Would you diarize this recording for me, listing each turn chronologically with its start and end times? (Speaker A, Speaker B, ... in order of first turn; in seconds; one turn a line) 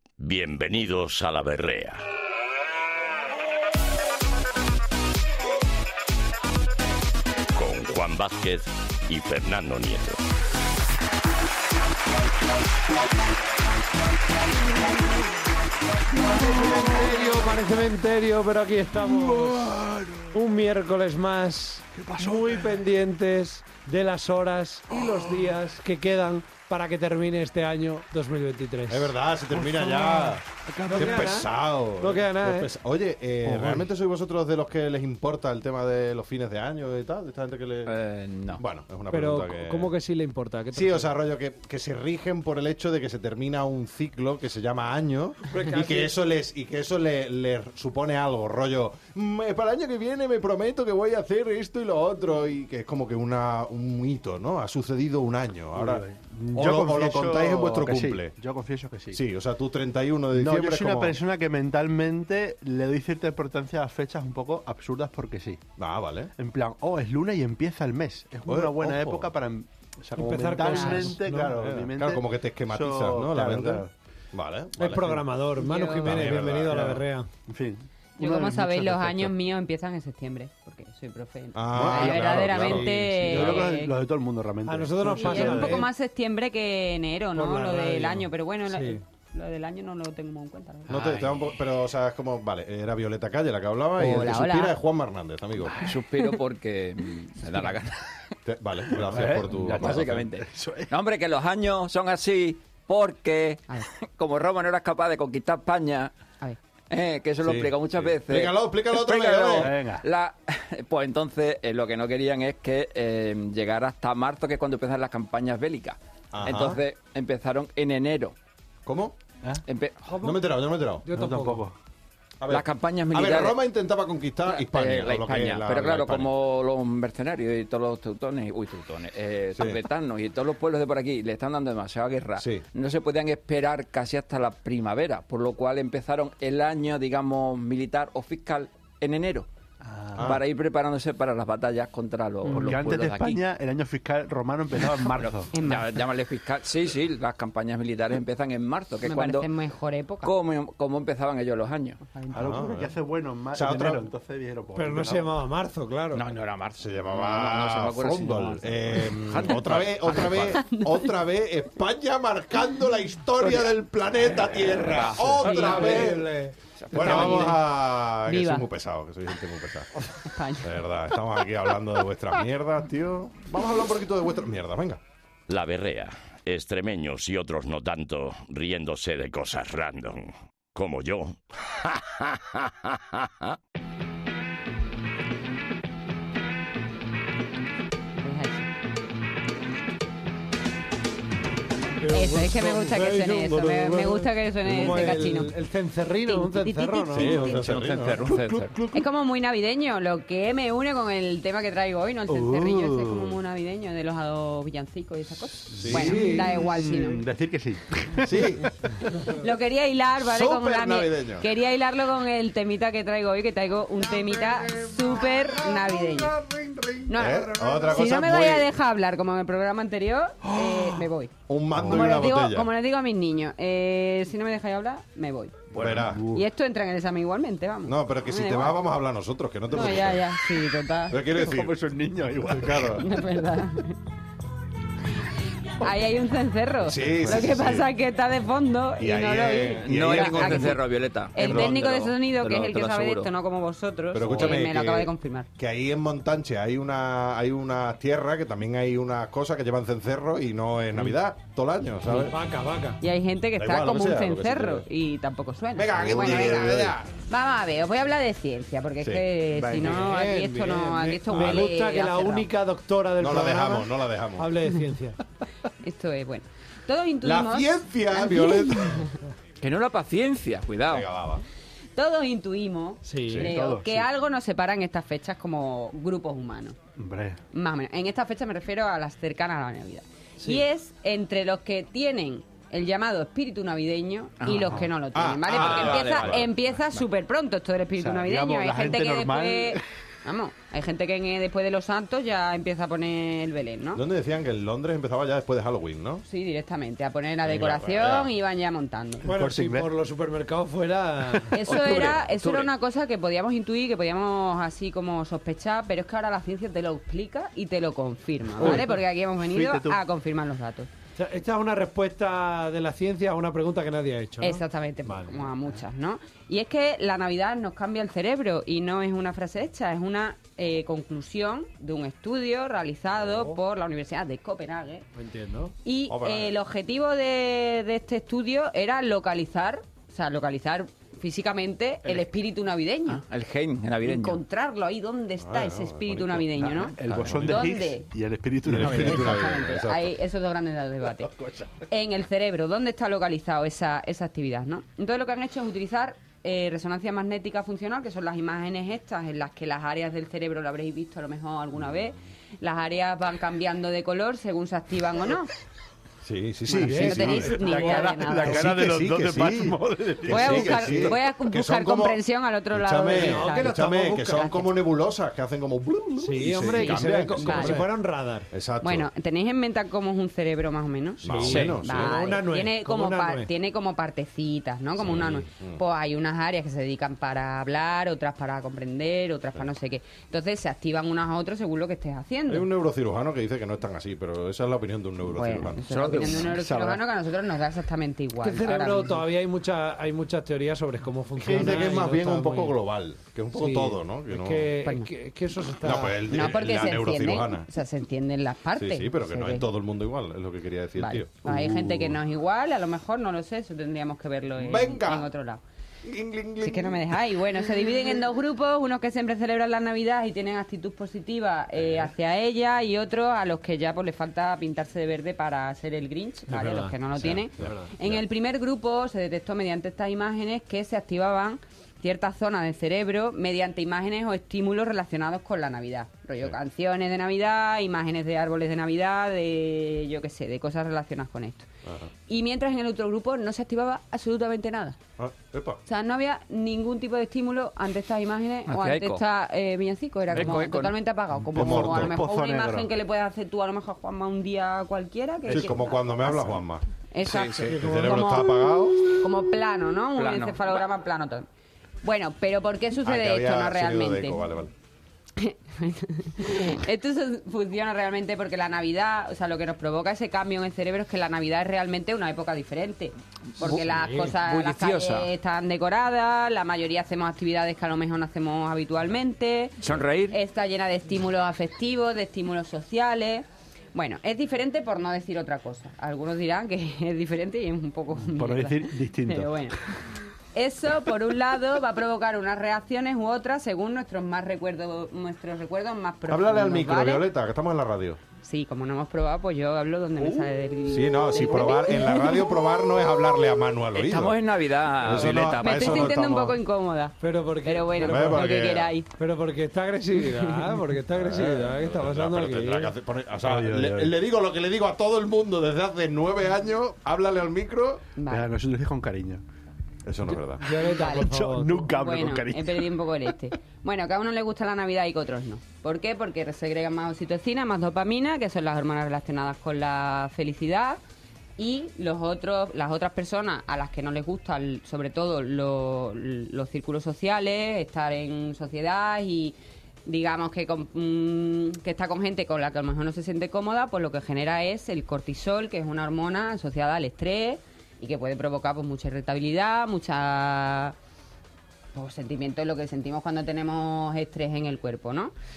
Speaker A: 0.2-2.0
Speaker A: 7.5-10.2
Speaker B: 16.2-17.4
Speaker C: 16.3-19.8
Speaker B: 19.0-20.4
Speaker C: 20.3-29.1
Speaker B: 21.9-22.8
Speaker B: 24.9-25.4
Speaker D: 28.9-38.0
Speaker B: 29.5-31.4
Speaker C: 30.9-32.7
Speaker B: 33.4-33.9
Speaker E: 37.9-38.6
Speaker D: 38.6-39.9
Speaker C: 39.1-41.1
Speaker D: 40.7-58.4
Speaker C: 45.5-46.1
Speaker B: 55.7-59.2
Speaker D: 59.1-61.2
Speaker B: 60.3-65.6
Speaker D: 65.8-66.3
Speaker B: 66.4-73.9
Speaker D: 68.5-69.3
Speaker C: 70.2-71.5
Speaker F: 70.6-71.1
Speaker D: 71.2-75.3
Speaker C: 74.8-77.3
Speaker F: 75.6-76.3
Speaker D: 76.0-77.0
Speaker B: 77.5-79.3
Speaker F: 78.2-83.9
Speaker D: 81.5-83.7
Speaker B: 81.8-85.8
Speaker C: 84.7-85.9
Speaker F: 85.2-91.2
Speaker C: 87.4-89.0
Speaker D: 90.9-95.9
Speaker F: 94.0-94.8
Speaker E: 95.8-98.3
Speaker D: 98.5-100.2
Speaker B: 98.9-100.9
Speaker E: 99.2-106.1
Speaker E: 106.9-118.3
Speaker D: 107.4-109.7
Speaker B: 109.5-110.0
Speaker D: 116.3-116.8
Speaker D: 118.8-119.2
Speaker E: 119.7-120.0
Speaker C: 120.0-120.4
Speaker D: 120.2-121.0
Speaker C: 121.0-121.7
Speaker B: 121.1-121.8
Speaker D: 122.4-126.3
Speaker E: 122.5-123.6
Speaker E: 124.5-139.5
Speaker D: 132.4-132.7
Speaker B: 139.8-140.4
Speaker D: 140.2-140.4
Speaker E: 140.2-143.4
Speaker B: 142.4-145.5
Speaker E: 145.0-149.5
Speaker F: 145.5-145.9
Speaker F: 149.1-150.3
Speaker E: 150.2-152.0
Speaker F: 152.1-152.8
Speaker D: 152.3-152.9
Speaker B: 152.3-155.3
Speaker D: 153.5-154.1
Speaker C: 154.7-156.2
Speaker E: 156.1-160.6
Speaker D: 156.8-166.3
Speaker F: 160.5-161.1
Speaker E: 164.8-165.5
Speaker C: 165.4-166.6
Speaker F: 165.5-166.0
Speaker E: 166.9-167.4
Speaker D: 166.9-169.9
Speaker F: 166.9-167.6
Speaker F: 168.3-168.7
Speaker F: 170.2-170.8
Speaker D: 170.6-175.0
Speaker A: 175.5-183.6
Speaker F: 188.2-188.7
Speaker C: 192.0-197.6
Speaker F: 192.1-195.6
Speaker F: 196.3-197.6
Speaker D: 197.1-198.3
Speaker E: 197.5-198.8
Speaker B: 198.2-199.1
Speaker F: 198.9-207.2
Speaker B: 202.3-203.4
Speaker B: 205.7-209.2
Speaker D: 205.7-206.3
Speaker C: 205.9-206.6
Speaker D: 208.2-208.7
Speaker F: 209.2-216.4
Speaker D: 210.2-211.5
Speaker C: 214.2-217.1
Speaker F: 217.1-221.3
Speaker D: 217.2-218.7
Speaker B: 220.4-221.1
Speaker D: 221.5-222.7
Speaker B: 221.8-222.1
Speaker F: 221.9-225.6
Speaker E: 225.7-226.1
Speaker D: 225.8-226.3
Speaker B: 225.8-226.4
Speaker F: 226.3-228.8
Speaker D: 227.8-230.3
Speaker F: 229.7-231.6
Speaker D: 231.1-231.8
Speaker B: 231.3-233.3
Speaker D: 232.5-233.1
Speaker F: 233.0-234.0
Speaker F: 235.8-240.8
Speaker D: 236.8-237.9
Speaker D: 239.0-240.8
Speaker E: 239.8-243.3
Speaker F: 241.3-245.5
Speaker D: 241.4-242.0
Speaker D: 244.1-252.3
Speaker C: 252.2-253.0
Speaker F: 253.0-262.5
Speaker D: 253.6-254.9
Speaker D: 255.7-257.1
Speaker D: 259.0-259.3
Speaker C: 259.5-265.2
Speaker D: 261.3-261.7
Speaker D: 263.2-264.5
Speaker F: 265.8-269.1
Speaker D: 267.2-269.1
Speaker E: 269.6-271.1
Speaker D: 270.9-271.4
Speaker F: 272.0-276.8
Speaker C: 273.1-273.5
Speaker D: 273.2-273.5
Speaker B: 273.4-274.1
Speaker B: 277.0-277.4
Speaker F: 277.5-294.0
Speaker C: 280.4-280.6
Speaker E: 284.4-284.8
Speaker B: 284.5-284.8
Speaker D: 285.1-286.5
Speaker E: 285.5-286.5
Speaker B: 288.0-289.8
Speaker D: 293.9-296.2
Speaker F: 296.3-299.3
Speaker D: 297.4-298.3
Speaker C: 299.2-301.6
Speaker B: 299.3-299.9
Speaker F: 301.5-310.9
Speaker E: 301.6-302.7
Speaker B: 308.6-310.0
Speaker C: 308.6-308.9
Speaker C: 311.2-315.7
Speaker F: 314.4-325.1
Speaker C: 323.3-323.6
Speaker C: 325.2-325.7
Speaker F: 325.8-333.2
Speaker D: 326.1-326.6
Speaker E: 333.1-334.4
Speaker F: 334.0-338.1
Speaker D: 335.4-337.7
Speaker B: 336.6-339.5
Speaker E: 337.1-337.4
Speaker D: 338.6-340.1
Speaker F: 338.8-341.3
Speaker B: 341.1-341.8
Speaker F: 341.9-355.5
Speaker D: 356.2-357.6
Speaker C: 356.7-358.0
Speaker F: 356.9-358.7
Speaker B: 357.3-361.2
Speaker D: 358.4-362.2
Speaker F: 360.3-364.7
Speaker D: 362.7-367.9
Speaker C: 363.1-364.5
Speaker C: 366.2-368.5
Speaker F: 366.6-367.9
Speaker D: 368.5-369.1
Speaker F: 368.8-382.7
Speaker D: 371.2-372.2
Speaker C: 371.2-373.5
Speaker E: 371.4-371.8
Speaker D: 375.0-375.8
Speaker D: 382.5-386.4
Speaker F: 385.4-389.2
Speaker E: 385.9-386.9
Speaker B: 386.6-387.0
Speaker C: 388.4-392.7
Speaker D: 391.4-394.7
Speaker C: 393.5-396.2
Speaker F: 394.8-395.1
Speaker D: 395.8-397.7
Speaker F: 396.3-399.7
Speaker D: 398.8-401.3
Speaker F: 401.0-405.6
Speaker C: 401.5-402.1
Speaker D: 404.6-405.3
Speaker D: 406.0-407.4
Speaker F: 406.6-431.7
Speaker C: 416.5-417.9
Speaker D: 417.2-418.2
Speaker F: 432.3-435.0
Speaker D: 435.2-435.8
Speaker F: 435.9-446.6
Speaker E: 438.7-439.2
Speaker E: 440.3-440.9
Speaker B: 441.5-442.9
Speaker D: 441.6-442.2
Speaker B: 445.5-445.7
Speaker D: 445.5-446.8
Speaker F: 447.1-451.5
Speaker E: 447.2-447.7
Speaker D: 447.5-449.0
Speaker C: 447.7-448.4
Speaker E: 450.2-450.8
Speaker F: 452.0-454.4
Speaker D: 453.0-454.7
Speaker F: 455.4-479.8
Speaker C: 463.6-464.2
Speaker E: 463.6-465.3
Speaker E: 469.8-470.4
Speaker B: 478.1-479.7
Speaker F: 480.6-487.3
Speaker D: 486.3-488.2
Speaker F: 488.4-493.4
Speaker B: 490.2-490.5
Speaker D: 490.9-496.6
Speaker E: 493.9-496.1
Speaker F: 495.3-499.1
Speaker C: 497.2-498.5
Speaker D: 498.0-498.9
Speaker C: 499.2-502.9
Speaker D: 501.1-508.0
Speaker B: 503.4-504.1
Speaker F: 508.2-508.5
Speaker B: 508.3-509.4
Speaker D: 510.1-510.7
Speaker C: 510.6-511.9
Speaker B: 510.7-513.3
Speaker F: 510.8-521.0
Speaker F: 521.6-541.0
Speaker F: 541.9-545.3